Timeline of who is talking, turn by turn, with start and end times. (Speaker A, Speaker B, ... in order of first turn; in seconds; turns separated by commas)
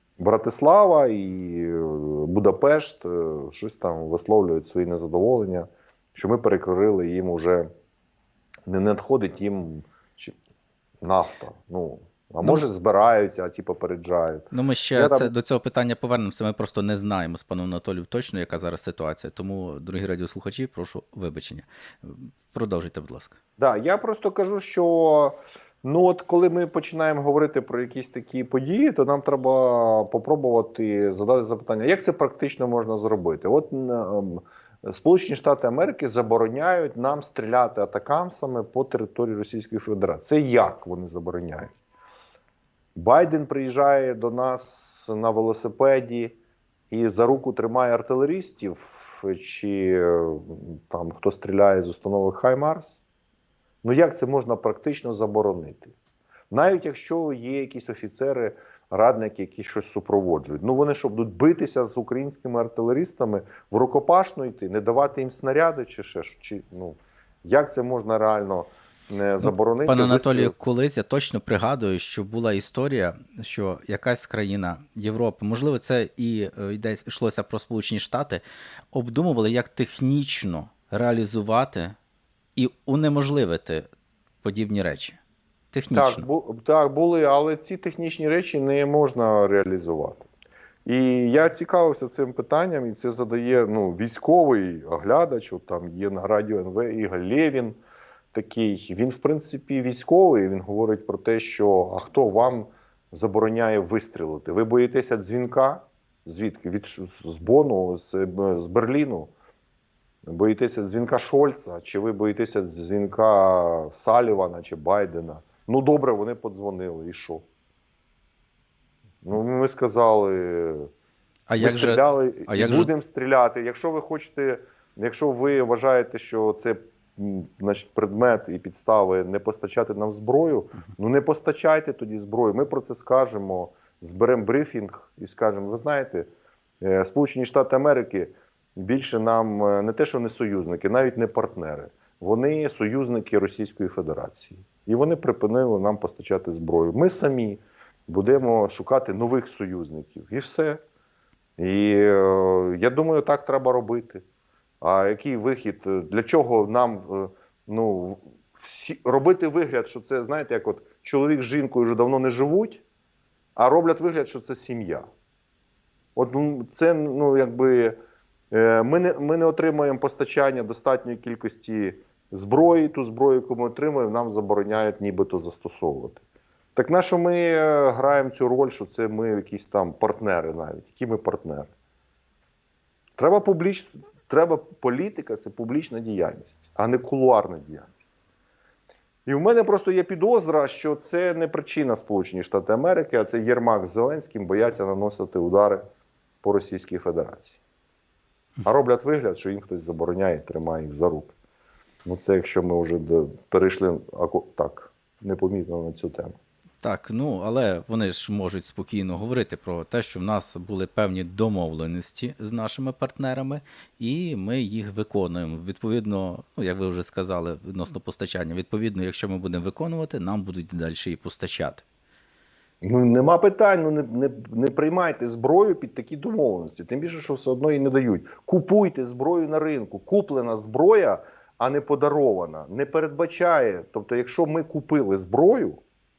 Speaker A: 0.2-7.7, Speaker A: 8.7-10.3, Speaker A: 11.0-15.3, Speaker B: 14.5-23.4, Speaker A: 23.6-41.8, Speaker A: 43.0-46.4, Speaker A: 46.9-53.0, Speaker A: 53.8-56.0, Speaker A: 56.5-70.5, Speaker B: 69.4-82.0, Speaker B: 82.6-83.9, Speaker B: 84.4-85.2, Speaker B: 85.7-86.3, Speaker A: 85.9-90.3, Speaker A: 90.9-97.8, Speaker A: 98.3-109.3, Speaker A: 110.2-117.5, Speaker A: 119.2-120.9, Speaker B: 121.5-122.9, Speaker A: 121.6-136.3, Speaker A: 136.8-150.8, Speaker A: 151.6-154.2, Speaker A: 154.8-162.8, Speaker A: 163.6-165.1, Speaker A: 166.2-168.0, Speaker A: 168.5-176.2, Speaker A: 176.8-181.7, Speaker A: 183.2-188.1, Speaker A: 189.3-195.8, Speaker A: 196.4-197.6, Speaker A: 198.6-201.3, Speaker A: 202.1-206.4, Speaker B: 206.8-221.8, Speaker A: 222.8-235.8